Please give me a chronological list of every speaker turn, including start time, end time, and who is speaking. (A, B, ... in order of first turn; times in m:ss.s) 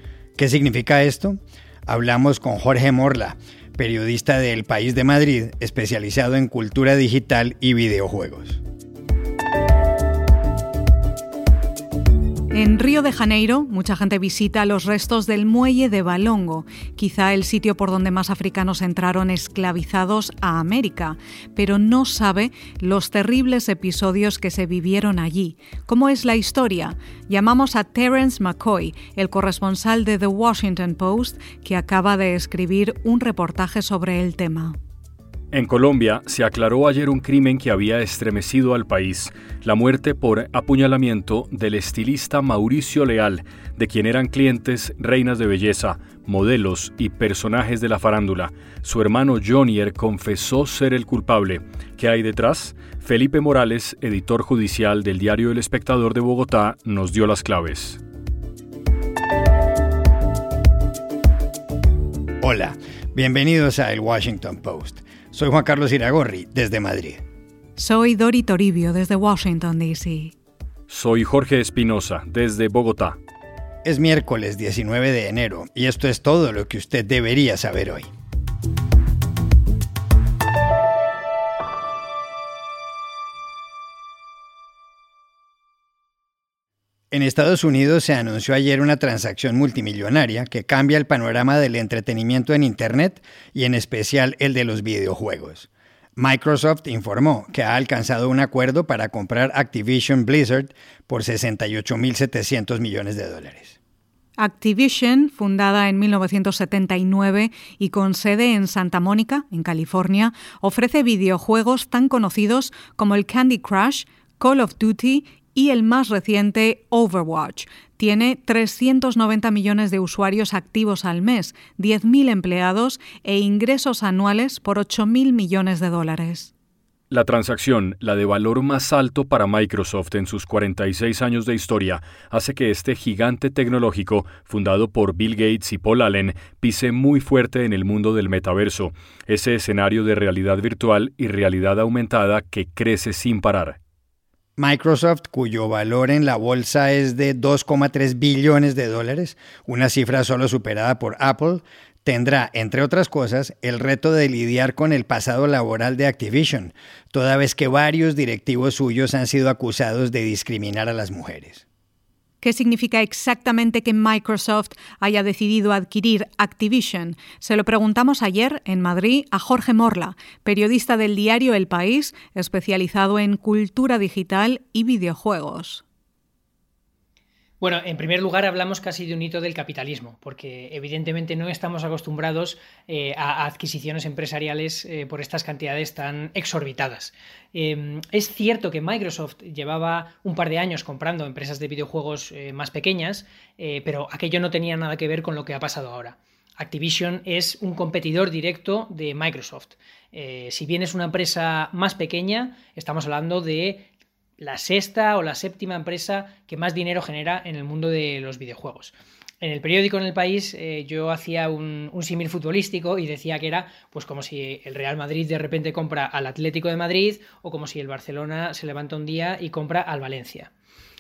0:00.4-0:08.6 A
0:12.5-0:34.8 B
0:35.5-0:58.0 C
1:02.4-1:07.2 A
1:07.8-1:10.3 B
1:10.9-1:13.2 C
1:13.8-1:18.1 A
1:27.1-1:43.8 A
1:44.4-2:06.5 B
2:07.1-2:23.8 C
2:24.6-2:41.6 A
2:42.4-2:55.8 B
2:57.6-3:23.9 D
3:24.4-3:40.5 D